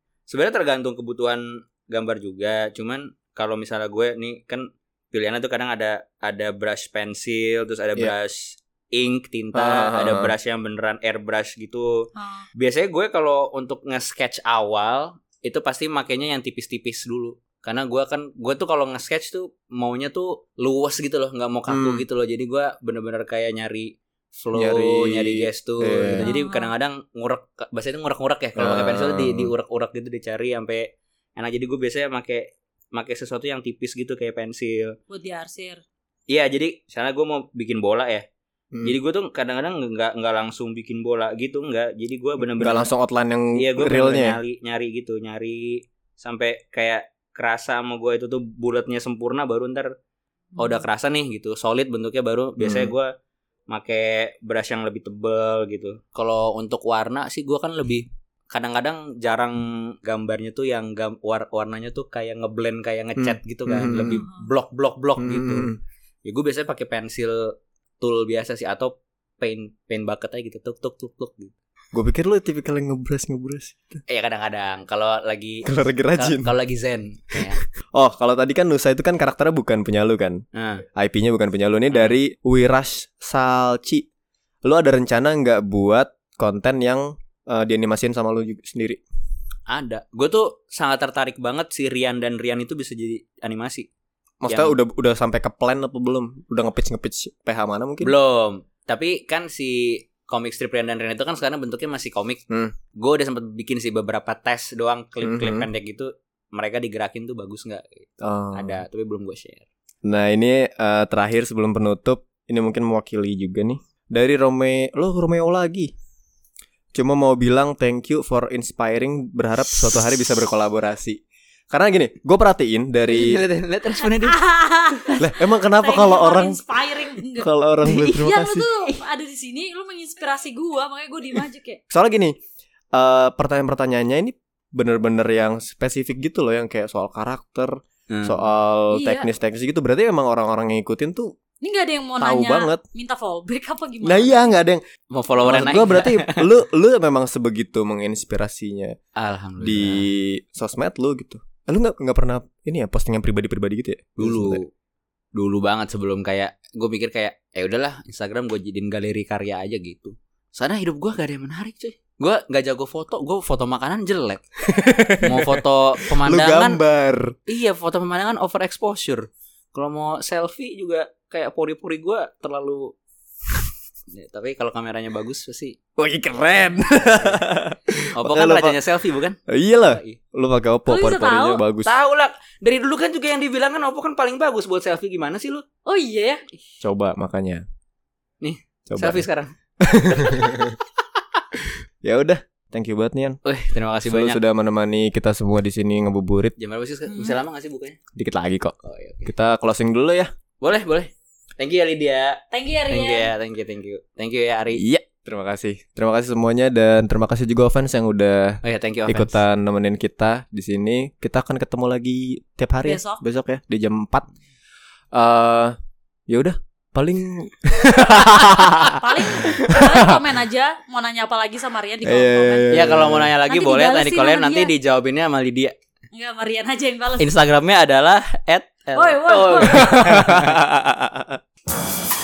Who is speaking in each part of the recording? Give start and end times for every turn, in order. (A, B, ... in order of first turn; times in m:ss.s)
0:00.3-0:11.9 A
0:09.5-0:10.3 B
0:12.2-0:12.4 C
0:12.6-0:34.9 A
0:21.7-0:22.0 B
0:24.5-0:26.3 B
0:26.2-0:26.7 C
0:28.6-0:29.5 B
0:35.1-0:35.8 C
0:36.3-0:38.2 A
0:38.8-0:42.9 A
0:42.4-0:44.4 B
0:43.5-0:49.9 A
0:50.6-0:53.1 A
0:52.6-0:52.9 B
0:53.7-1:05.7 A
1:03.2-1:04.2 B
1:04.1-1:04.4 C
1:05.2-1:05.8 B
1:06.2-1:11.5 A
1:11.9-1:14.0 B
1:14.1-1:17.6 A
1:15.6-1:16.5 B
1:17.9-1:20.4 B
1:20.5-1:20.8 A
1:21.0-1:24.0 B
1:21.9-1:22.2 A
1:24.6-1:29.0 B
1:29.7-1:33.9 A
1:34.4-1:38.1 B
1:34.4-1:34.8 A
1:38.0-1:42.4 A
1:42.9-1:49.6 A
1:45.2-1:45.7 B
1:48.2-1:48.8 B
1:50.0-1:55.9 B
1:56.9-2:01.2 B
2:01.7-2:03.4 B
2:03.1-2:04.4 A
2:04.0-2:11.8 C
2:05.2-2:06.6 B
2:07.4-2:08.7 B
2:11.9-2:12.3 B
2:12.9-2:17.7 B
2:18.1-2:18.4 A
2:18.2-2:21.3 B
2:18.9-2:19.3 C
2:21.6-2:24.4 C
2:22.2-2:22.8 B
2:24.0-2:24.8 B
2:25.1-2:26.4 A
2:25.4-2:28.9 B
2:29.2-2:30.1 A
2:29.6-2:34.6 B
2:34.2-2:34.7 A
2:35.3-2:44.4 A
2:44.7-2:45.6 B
2:45.2-2:46.8 A
2:46.2-2:47.3 B
2:47.5-2:52.9 A
2:54.1-2:55.8 A
2:56.0-2:58.8 B
2:56.9-2:57.4 A
2:58.1-3:00.2 A
2:59.5-3:01.9 B
3:00.9-3:01.6 C
3:01.8-3:05.6 A
3:05.8-3:06.4 C
3:06.8-3:07.6 B
3:08.4-3:09.5 A
3:08.9-3:09.2 B
3:09.8-3:10.8 B
3:10.1-3:10.6 A
3:12.0-3:13.4 B
3:13.4-3:14.4 A
3:14.0-3:16.5 B
3:16.6-3:18.0 A
3:17.1-3:17.4 C
3:18.2-3:20.3 B
3:18.8-3:19.3 A
3:20.6-3:24.8 A
3:22.5-3:23.3 C
3:24.7-3:34.3 B
3:28.6-3:29.4 A
3:32.8-3:33.2 C
3:35.1-3:35.7 B
3:36.3-3:39.0 B
3:38.1-3:38.6 A
3:38.9-3:42.9 C
3:39.8-3:40.2 B
3:42.0-3:43.3 B
3:42.7-3:45.7 A
3:43.4-3:44.7 C
3:46.1-3:47.3 C
3:47.2-3:50.6 A
3:48.9-3:50.2 C
3:49.7-3:51.4 B